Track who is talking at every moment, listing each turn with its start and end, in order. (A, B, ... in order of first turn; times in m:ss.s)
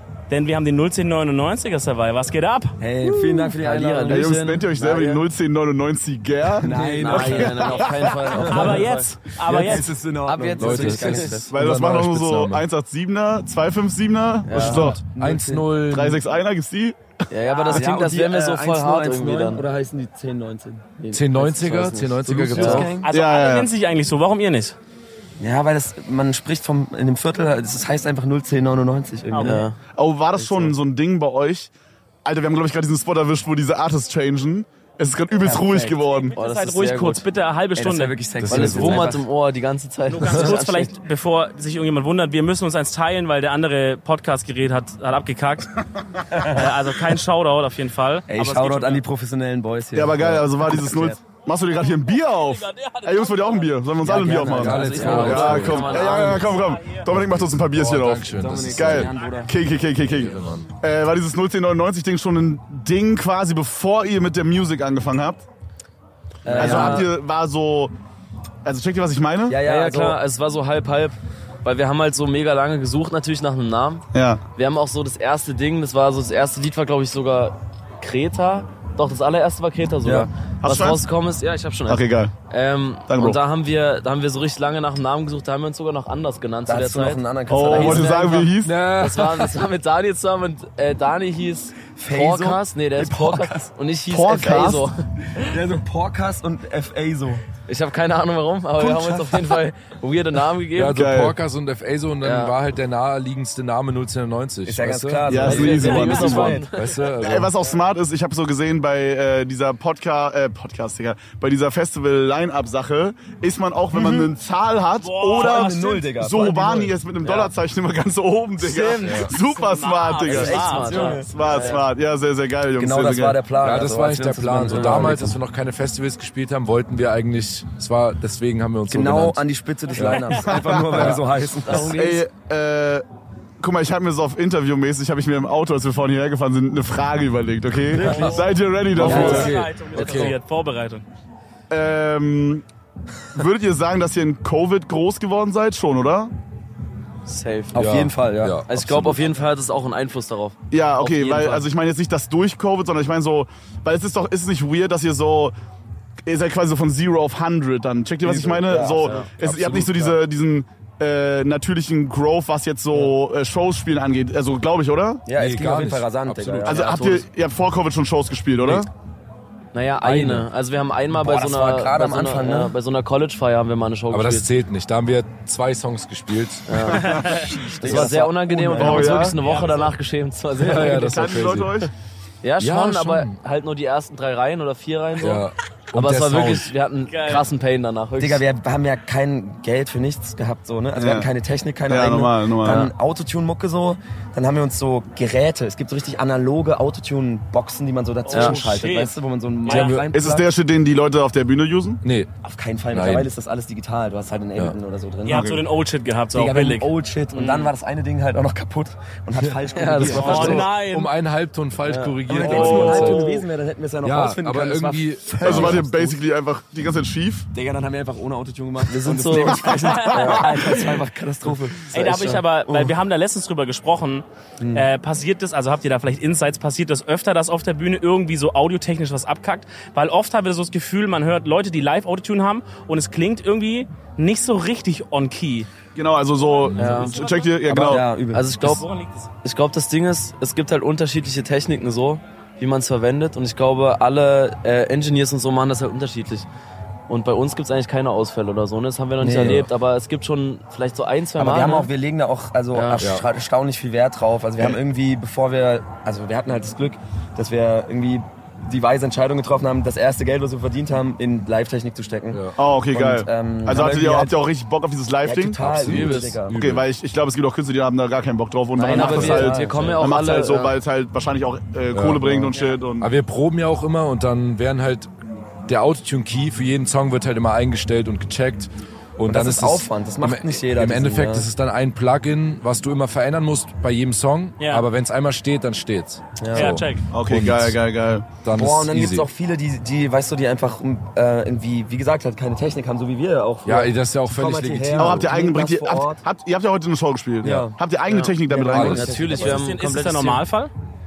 0:00.3-0:02.8 A
0:02.8-0:04.4 B
0:03.0-0:05.3 C
0:04.1-0:07.5 D
0:06.6-0:11.5 B
0:06.7-0:11.5 C
0:07.1-0:09.9 A
0:10.6-0:12.7 E
0:11.5-0:15.0 D
0:14.4-0:15.0 C
0:14.6-0:15.7 B
0:14.6-0:16.2 E
0:15.8-0:17.0 D
0:17.3-0:19.6 C
0:17.4-0:17.8 A
0:17.7-0:23.1 B
0:21.1-0:23.0 E
0:22.5-0:22.9 C
0:23.0-0:24.8 A
0:23.1-0:23.7 D
0:25.4-0:29.7 B
0:29.3-0:29.6 A
0:29.4-0:29.8 C
0:29.9-0:31.7 D
0:30.3-0:30.8 C
0:32.2-0:36.4 D
0:35.4-0:38.2 A
0:36.3-0:37.2 C
0:37.8-0:39.2 B
0:38.4-0:39.2 E
0:38.5-0:40.9 C
0:40.1-0:45.7 A
0:46.3-0:49.0 A
0:46.3-0:46.7 B
0:48.3-0:51.2 B
0:49.9-1:05.4 D
0:52.3-0:53.8 A
0:54.0-0:55.9 B
0:54.5-0:56.0 E
0:54.7-0:56.6 C
0:55.8-0:57.0 A
0:57.1-0:59.1 E
0:58.3-0:59.6 B
1:00.0-1:00.7 E
1:06.4-1:07.1 B
1:06.5-1:07.1 C
1:06.6-1:07.9 D
1:08.6-1:09.6 D
1:09.5-1:10.2 B
1:09.6-1:14.0 C
1:14.1-1:14.4 D
1:14.6-1:35.5 C
1:20.0-1:20.3 B
1:20.6-1:21.0 D
1:21.9-1:22.3 D
1:23.1-1:23.4 D
1:26.7-1:28.3 B
1:27.5-1:28.8 D
1:28.6-1:29.6 E
1:32.0-1:33.7 B
1:34.1-1:34.9 D
1:35.4-1:37.4 B
1:37.7-1:41.0 C
1:38.8-1:39.6 B
1:40.8-1:45.4 E
1:40.8-1:41.4 D
1:42.2-1:42.6 C
1:44.6-1:46.7 B
1:45.2-2:03.4 D
1:45.4-1:47.1 C
1:45.7-1:46.3 A
1:46.7-1:47.5 E
1:53.9-1:54.3 B
1:55.0-1:56.1 A
1:55.4-1:57.0 B
1:57.2-1:57.5 C
1:58.6-2:01.7 A
1:59.0-1:59.3 E
2:00.3-2:01.9 C
2:00.3-2:01.4 B
2:02.8-2:05.4 B
2:03.6-2:09.4 E
2:04.7-2:05.1 C
2:08.9-2:11.9 B
2:10.0-2:10.5 A
2:10.4-2:11.2 D
2:11.0-2:11.2 E
2:11.6-2:12.2 C
2:11.7-2:13.0 D
2:13.6-2:19.5 D
2:18.0-2:21.0 A
2:18.0-2:18.3 E
2:19.0-2:20.4 C
2:19.0-2:20.4 E
2:19.0-2:19.5 B
2:21.7-2:22.6 D
2:23.3-2:26.3 D
2:27.3-2:28.0 C
2:27.7-2:29.2 B
2:27.8-2:29.2 E
2:28.7-2:31.7 C
2:30.7-2:35.5 D
2:36.2-2:45.3 D
2:38.2-2:40.2 B
2:38.8-2:39.3 C
2:45.3-2:47.2 B
2:45.4-2:46.8 E
2:46.7-2:48.9 D
2:49.7-2:54.5 C
2:50.0-2:50.5 E
2:51.1-2:52.8 B
2:54.1-2:57.0 E
2:56.7-3:01.3 C
2:57.1-2:57.6 A
2:57.5-2:59.4 B
2:57.9-2:58.1 D
2:58.7-2:59.4 D
2:59.4-2:59.9 A
3:00.6-3:01.7 E
3:00.8-3:01.9 D
3:02.4-3:08.4 C
3:02.6-3:03.4 E
3:05.2-3:06.7 E
3:07.1-3:07.5 A
3:08.2-3:20.5 B
3:11.0-3:11.3 D
3:11.9-3:12.9 D
3:18.3-3:20.0 A
3:18.3-3:18.8 C
3:19.7-3:20.1 E
3:20.1-3:22.0 D
3:22.0-3:22.3 E
3:22.4-3:25.6 B
3:22.9-3:23.3 E
3:25.2-3:27.7 A
3:25.3-3:25.6 D
3:26.3-3:30.7 B
3:29.4-3:33.3 E
3:29.7-3:30.7 C
3:30.2-3:31.1 A
3:31.8-3:33.0 C
3:32.3-3:36.2 B
3:32.4-3:33.4 A
3:34.0-3:35.9 E
3:35.4-3:37.5 D
3:37.5-3:43.0 B
3:38.9-3:40.5 C
3:39.6-3:40.4 A
3:39.7-3:40.4 D
3:41.9-3:55.7 A
3:44.6-3:44.9 B
3:56.0-3:58.1 D
3:56.6-3:57.7 A
3:56.6-3:57.1 E
3:56.8-3:57.2 C
3:57.7-3:58.0 E
3:57.8-3:58.5 B
3:58.3-3:58.9 C
3:58.6-3:59.3 A
3:59.4-4:06.5 C
4:07.1-4:11.9 C
4:09.2-4:09.6 B
4:09.3-4:09.7 E
4:11.4-4:24.4 B
4:12.7-4:13.1 C
4:13.0-4:13.2 E
4:22.3-4:22.6 E
4:22.6-4:25.6 D
4:25.2-4:26.6 B
4:25.6-4:26.8 E
4:25.8-4:26.4 C
4:26.5-4:33.1 D
4:28.8-4:30.1 B
4:28.8-4:30.8 C
4:29.0-4:29.4 E
4:31.9-4:35.1 E
4:35.7-4:47.8 E
4:39.3-4:41.5 B
4:44.6-4:44.9 A
4:46.4-4:46.8 B
4:46.5-4:47.0 A
4:47.1-4:48.3 D
4:48.4-4:49.3 E
4:48.5-4:56.2 B
4:53.6-4:55.3 E
4:55.0-4:59.5 D
4:57.4-4:57.8 B
4:58.1-5:00.4 C
4:58.5-4:59.7 B
4:58.7-4:59.1 E
4:59.4-5:00.7 A